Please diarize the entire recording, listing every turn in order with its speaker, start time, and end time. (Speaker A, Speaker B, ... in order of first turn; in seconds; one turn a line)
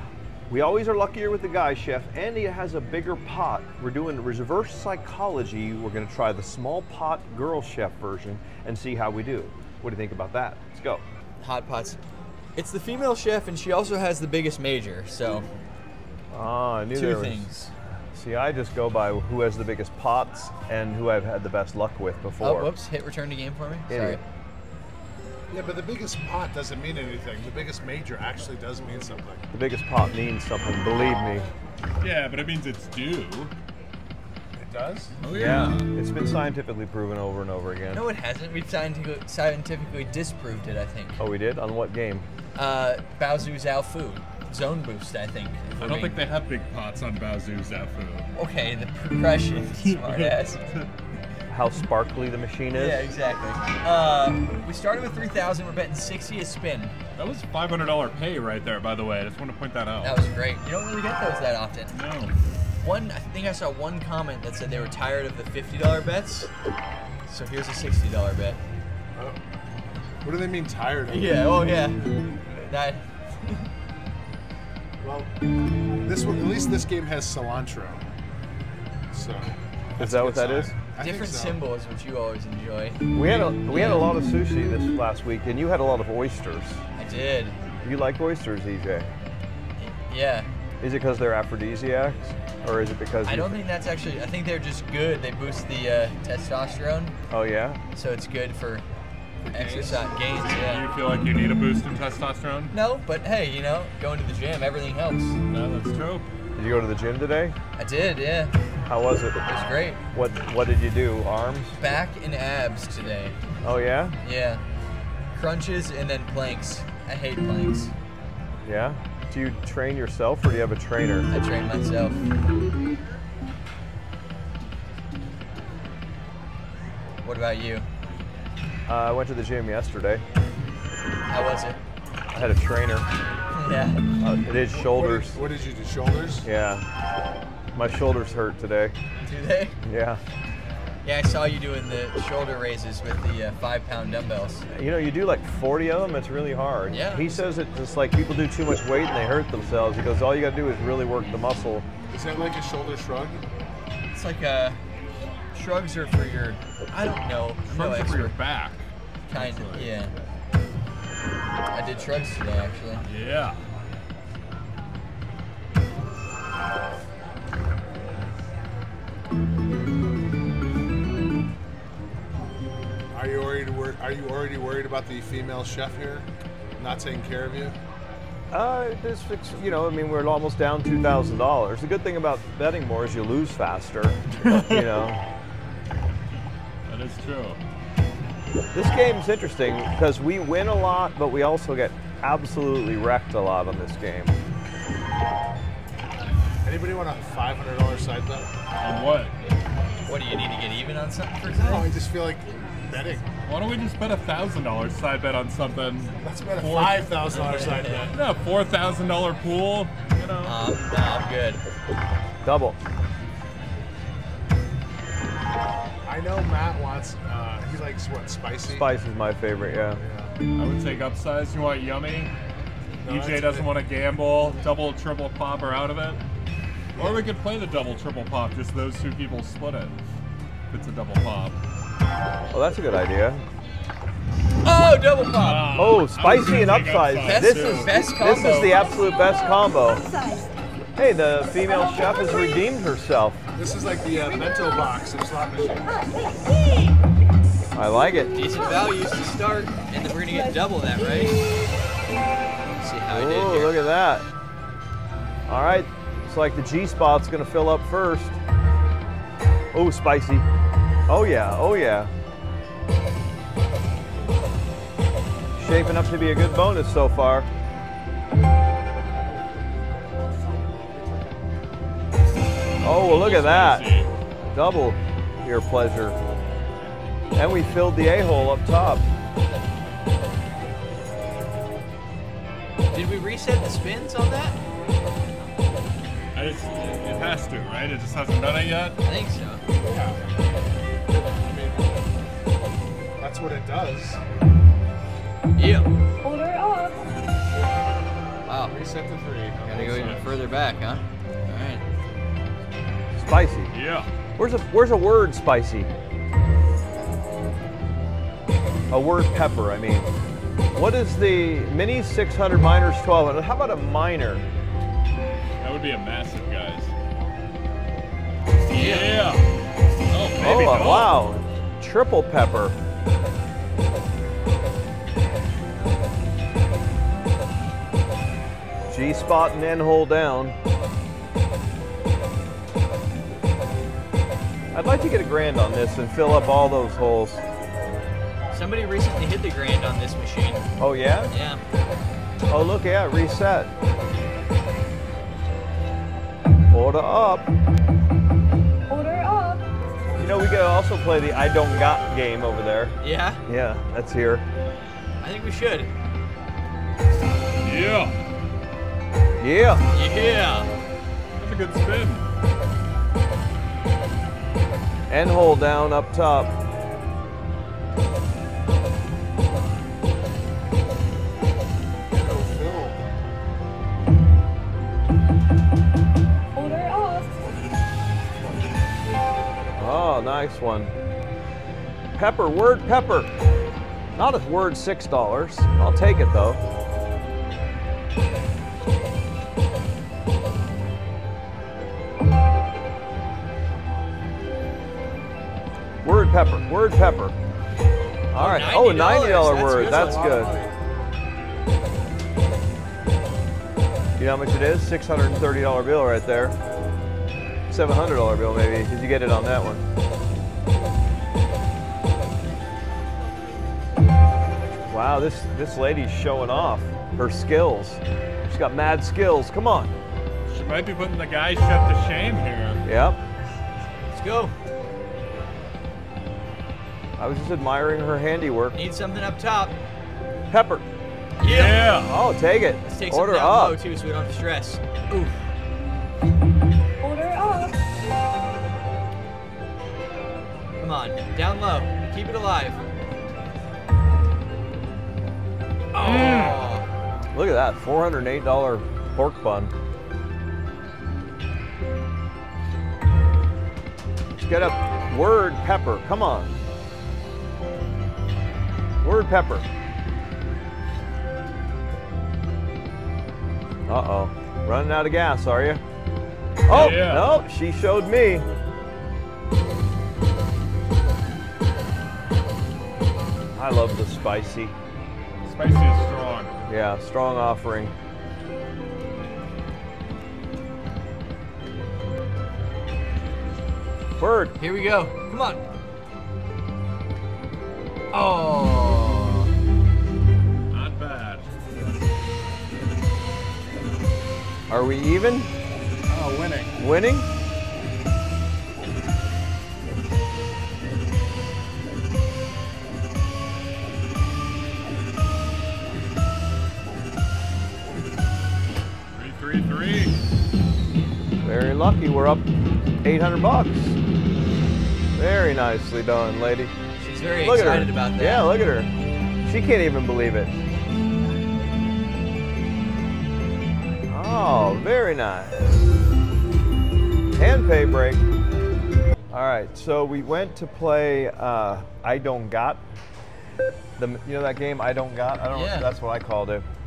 Speaker A: 0.5-11.0
Speaker B: 11.4-12.0
Speaker B: 12.6-15.4
Speaker A: 16.3-17.5
Speaker B: 16.9-17.7
Speaker A: 18.1-22.7
Speaker B: 22.4-24.2
Speaker A: 23.9-24.2
Speaker C: 25.5-29.4
Speaker A: 29.5-31.5
Speaker D: 32.0-33.5
Speaker C: 34.5-35.1
Speaker D: 35.2-35.9
Speaker A: 35.3-38.0
Speaker B: 37.9-41.2
Speaker A: 41.2-42.2
Speaker B: 42.5-46.2
Speaker D: 45.8-48.3
Speaker B: 48.3-50.6
Speaker D: 49.8-50.9
Speaker A: 51.5-53.1
Speaker B: 52.7-56.9
Speaker D: 57.2-60.2
Speaker B: 60.0-61.9
Speaker D: 61.9-62.3
Speaker B: 62.8-66.5
Speaker B: 67.3-68.6
Speaker C: 70.2-71.5
Speaker B: 71.1-72.0
Speaker B: 72.6-73.7
Speaker C: 75.0-75.3
Speaker C: 76.0-78.0
Speaker C: 79.1-81.6
Speaker A: 80.0-80.7
Speaker B: 81.0-84.1
Speaker A: 83.1-86.8
Speaker B: 87.0-87.5
Speaker A: 87.8-89.1
Speaker B: 89.8-90.5
Speaker A: 90.8-93.6
Speaker B: 93.2-97.1
Speaker A: 97.3-97.8
Speaker B: 97.9-98.8
Speaker C: 99.4-100.0
Speaker B: 99.5-100.8
Speaker D: 100.4-102.7
Speaker B: 102.7-105.3
Speaker D: 105.5-106.2
Speaker A: 106.5-107.5
Speaker B: 107.8-108.5
Speaker A: 108.9-109.4
Speaker B: 109.5-110.0
Speaker A: 110.1-111.7
Speaker B: 111.8-113.3
Speaker A: 113.6-114.2
Speaker B: 114.2-114.6
Speaker B: 115.3-117.9
Speaker A: 118.6-121.3
Speaker B: 121.3-122.2
Speaker B: 127.2-127.8
Speaker A: 128.9-130.2
Speaker B: 131.3-131.8
Speaker A: 132.3-133.1
Speaker B: 133.5-134.0
Speaker A: 134.2-135.3
Speaker C: 134.7-136.5
Speaker A: 136.4-136.8
Speaker A: 137.7-138.9
Speaker B: 139.2-139.8
Speaker A: 139.8-140.2
Speaker B: 141.0-144.6
Speaker A: 144.7-151.8
Speaker B: 146.9-147.6
Speaker C: 152.1-153.4
Speaker B: 154.1-154.8
Speaker B: 155.5-158.3
Speaker D: 157.7-158.8
Speaker B: 159.3-160.1
Speaker C: 159.3-159.9
Speaker B: 161.7-163.0
Speaker D: 163.1-163.6
Speaker C: 173.1-176.2
Speaker C: 176.8-177.8
Speaker A: 178.5-185.2
Speaker D: 184.4-184.9
Speaker D: 186.9-187.6
Speaker A: 188.7-194.3
Speaker C: 196.6-198.5
Speaker D: 198.8-199.3
Speaker B: 200.1-201.9
Speaker C: 201.5-203.3
Speaker D: 203.4-207.3
Speaker C: 206.2-208.2
Speaker B: 207.3-208.1
Speaker D: 208.1-210.6
Speaker B: 210.4-211.6
Speaker A: 212.4-212.8
Speaker C: 216.1-218.9
Speaker A: 218.7-220.0
Speaker C: 220.0-220.3
Speaker D: 220.6-222.3
Speaker C: 223.0-223.7
Speaker D: 223.0-226.2
Speaker C: 226.9-227.2
Speaker D: 227.0-230.0
Speaker D: 230.7-231.6
Speaker A: 232.5-233.4
Speaker B: 234.6-235.7
Speaker D: 235.3-237.9
Speaker A: 235.7-240.0
Speaker B: 237.2-238.8
Speaker E: 238.9-239.4
Speaker A: 240.9-243.4
Speaker C: 243.6-245.9
Speaker A: 247.7-248.3
Speaker B: 248.3-251.4
Speaker B: 252.8-253.8
Speaker A: 253.1-254.2
Speaker A: 255.5-258.4
Speaker A: 259.7-260.5
Speaker A: 261.1-262.1
Speaker A: 265.6-267.5
Speaker A: 272.8-273.9
Speaker D: 273.0-274.1
Speaker A: 274.5-276.2
Speaker A: 277.4-279.0
Speaker B: 282.9-284.6
Speaker D: 286.3-289.0
Speaker B: 289.0-289.6
Speaker C: 289.9-290.2
Speaker C: 291.2-292.0
Speaker C: 293.2-294.2
Speaker B: 295.6-295.9
Speaker E: 296.2-297.0
Speaker B: 298.5-298.7
Speaker C: 298.6-300.2
Speaker B: 299.6-301.8
Speaker D: 299.7-300.2
Speaker A: 303.1-303.7
Speaker D: 303.7-304.1
Speaker A: 304.4-305.9
Speaker A: 308.9-310.1
Speaker A: 310.7-314.4
Speaker D: 315.6-316.9
Speaker D: 318.6-319.4
Speaker B: 318.7-319.1
Speaker D: 320.1-321.2
Speaker A: 320.4-322.8
Speaker A: 328.9-330.6
Speaker A: 334.7-337.4
Speaker B: 338.5-340.6
Speaker A: 340.8-341.3
Speaker B: 341.3-341.6
Speaker A: 342.5-343.7
Speaker A: 346.7-347.5
Speaker E: 348.9-349.6
Speaker A: 350.1-352.9
Speaker B: 353.0-353.4
Speaker A: 353.5-354.4
Speaker B: 355.2-355.9
Speaker D: 357.6-358.1
Speaker A: 359.4-359.8
Speaker B: 359.9-360.7
Speaker D: 361.4-362.2
Speaker A: 365.1-366.5
Speaker C: 372.1-373.0
Speaker E: 376.5-377.3
Speaker A: 379.8-380.9
Speaker A: 382.1-383.3
Speaker A: 384.1-386.6
Speaker A: 396.0-397.4
Speaker A: 398.3-400.6
Speaker B: 398.3-400.4
Speaker C: 399.6-400.7
Speaker A: 404.2-406.6
Speaker A: 407.7-409.8
Speaker A: 414.9-419.9
Speaker D: 420.5-422.8
Speaker A: 422.8-423.2
Speaker B: 424.1-424.5
Speaker A: 427.2-428.8
Speaker B: 428.7-429.7
Speaker A: 430.5-430.8
Speaker B: 431.4-431.8
Speaker D: 431.4-432.1
Speaker A: 432.0-433.8
Speaker B: 432.9-435.4
Speaker E: 437.0-437.8
Speaker B: 440.8-442.8
Speaker B: 445.9-446.9
Speaker A: 447.3-449.7
Speaker A: 454.4-456.6
Speaker A: 459.0-459.6
Speaker A: 463.9-465.8
Speaker A: 466.7-468.4
Speaker D: 466.7-467.3
Speaker A: 473.6-474.7
Speaker D: 475.4-476.5
Speaker A: 476.7-477.9
Speaker A: 484.2-484.6
Speaker B: 484.6-485.6
Speaker B: 488.1-489.5
Speaker D: 490.7-491.4
Speaker A: 494.7-495.5
Speaker C: 496.1-496.7
Speaker A: 496.8-497.3
Speaker D: 509.1-510.1
Speaker A: 511.4-512.4
Speaker A: 513.0-514.0
Speaker A: 515.1-516.7
Speaker B: 517.0-518.5
Speaker A: 517.4-518.9
Speaker A: 519.4-520.5
Speaker A: 524.1-525.8
Speaker A: 527.3-528.2
Speaker A: 529.3-532.8
Speaker A: 534.0-536.6
Speaker B: 535.5-535.9